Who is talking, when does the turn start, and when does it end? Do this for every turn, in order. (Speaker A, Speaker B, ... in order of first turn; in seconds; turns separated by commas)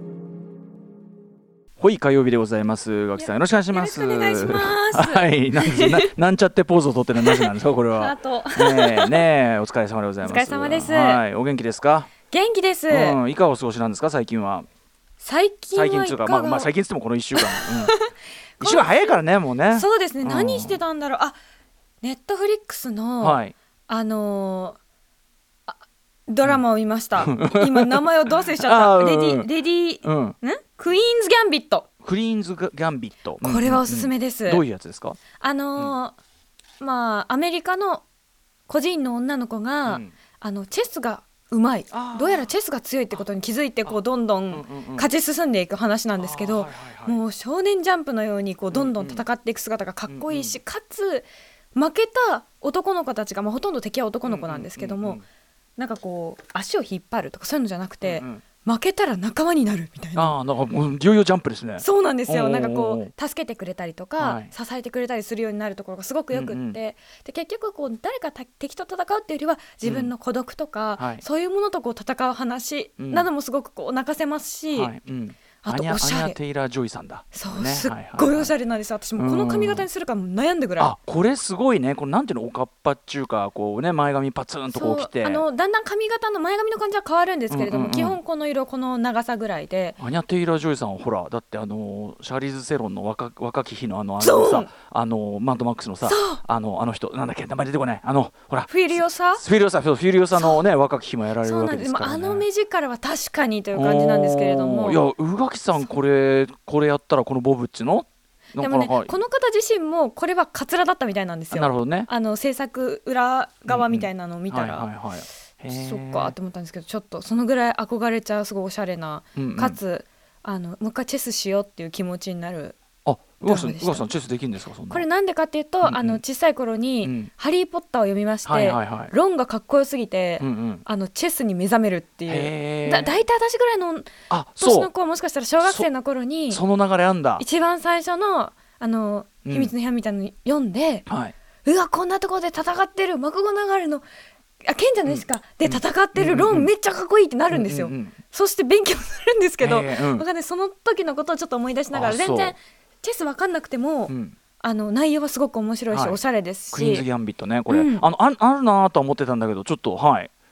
Speaker A: 1.8-12.1, Speaker B: 3.2-6.1, Speaker B: 7.2-9.2, Speaker B: 10.2-11.2, Speaker B: 12.3-13.2, Speaker A: 12.9-14.7, Speaker B: 15.2-16.7, Speaker A: 15.7-17.9, Speaker B: 17.4-19.2, Speaker A: 18.6-20.8, Speaker B: 19.7-21.4, Speaker B: 22.0-24.8, Speaker A: 23.2-23.5, Speaker B: 25.7-31.9, Speaker A: 27.2-28.1, Speaker A: 28.6-29.5, Speaker A: 30.0-30.4, Speaker A: 32.0-35.2, Speaker B: 33.4-34.6, Speaker B: 35.4-36.2, Speaker B: 36.8-38.0, Speaker B: 38.7-55.2, Speaker A: 39.9-40.1, Speaker A: 41.9-42.5, Speaker A: 44.5-45.1, Speaker A: 46.2-47.2, Speaker A: 48.7-49.2, Speaker A: 50.1-50.6, Speaker A: 54.2-55.2, Speaker B: 55.8-60.4, Speaker A: 58.0-58.4, Speaker A: 60.1-63.1, Speaker B: 61.8-74.9, Speaker A: 64.2-64.5, Speaker A: 66.3-66.8, Speaker A: 69.8-70.1, Speaker A: 71.0-71.2, Speaker A: 73.0-73.3, Speaker A: 74.7-78.5, Speaker B: 75.6-76.4, Speaker B: 77.3-80.9, Speaker A: 79.2-79.9, Speaker A: 80.8-85.4, Speaker B: 84.7-90.0, Speaker A: 87.5-88.2, Speaker A: 90.0-102.5, Speaker B: 94.2-94.7, Speaker B: 96.0-96.4, Speaker B: 98.7-99.4, Speaker B: 100.3-100.6, Speaker B: 101.4-105.0, Speaker A: 103.7-109.2, Speaker B: 108.6-114.9, Speaker A: 111.5-112.1, Speaker A: 113.7-116.3, Speaker B: 115.7-122.8, Speaker A: 119.4-119.8, Speaker A: 123.0-125.0, Speaker B: 123.4-124.1, Speaker B: 124.9-136.6, Speaker A: 125.8-126.2, Speaker A: 127.0-127.3, Speaker A: 128.4-129.1, Speaker A: 130.4-130.8, Speaker A: 132.3-133.2, Speaker A: 134.3-134.9, Speaker A: 136.5-137.4, Speaker B: 137.4-141.1, Speaker A: 139.4-139.7, Speaker A: 141.1-141.3, Speaker B: 141.6-144.1, Speaker B: 144.7-157.1, Speaker A: 145.1-146.7, Speaker A: 147.5-148.2, Speaker A: 149.6-150.2, Speaker A: 151.9-152.6, Speaker A: 154.1-154.4, Speaker A: 155.9-156.2, Speaker A: 156.7-160.3, Speaker B: 157.7-158.1